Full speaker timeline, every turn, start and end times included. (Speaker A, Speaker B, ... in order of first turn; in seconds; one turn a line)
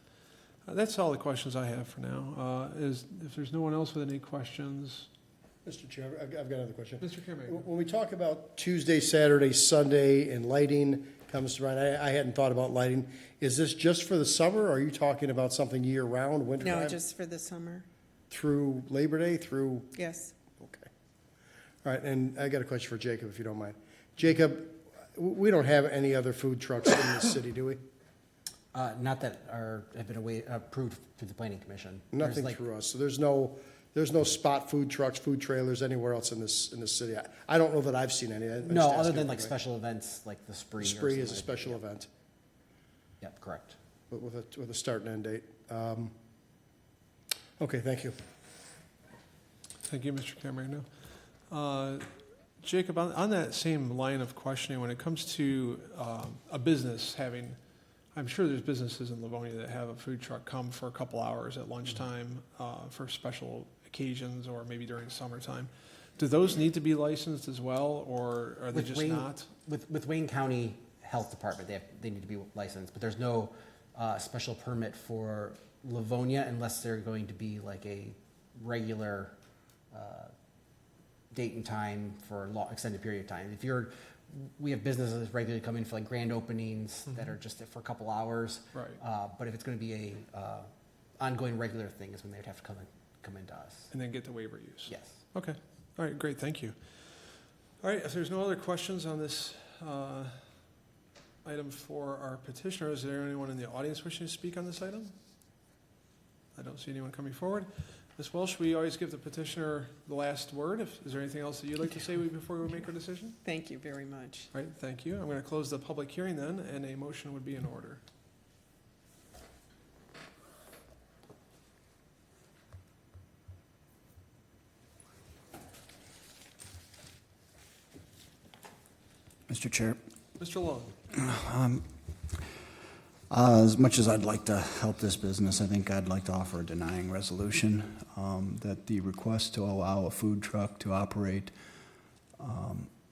Speaker A: 0.7-5.1
Speaker B: 5.7-17.0
Speaker A: 7.0-7.7
Speaker C: 16.6-17.9
Speaker B: 18.3-19.9
Speaker C: 19.9-20.3
Speaker B: 20.6-20.9
Speaker B: 21.8-27.8
Speaker D: 28.7-32.6
Speaker B: 32.1-39.5
Speaker D: 38.6-41.8
Speaker B: 40.8-42.1
Speaker D: 43.2-43.8
Speaker B: 44.1-46.1
Speaker B: 47.6-48.2
Speaker A: 49.9-50.9
Speaker A: 51.5-52.1
Speaker A: 52.6-57.6
Speaker A: 58.1-69.5
Speaker D: 68.7-79.3
Speaker D: 79.9-80.3
Speaker D: 81.3-93.9
Speaker A: 88.8-89.0
Speaker A: 93.9-97.0
Speaker D: 94.9-95.2
Speaker A: 97.8-100.4
Speaker A: 101.5-105.1
Speaker A: 106.6-113.4
Speaker C: 113.4-114.5
Speaker A: 114.5-118.0
Speaker E: 129.5-130.0
Speaker A: 130.4-130.9
Speaker E: 131.1-131.9
Speaker E: 133.3-141.5
Speaker E: 142.4-142.9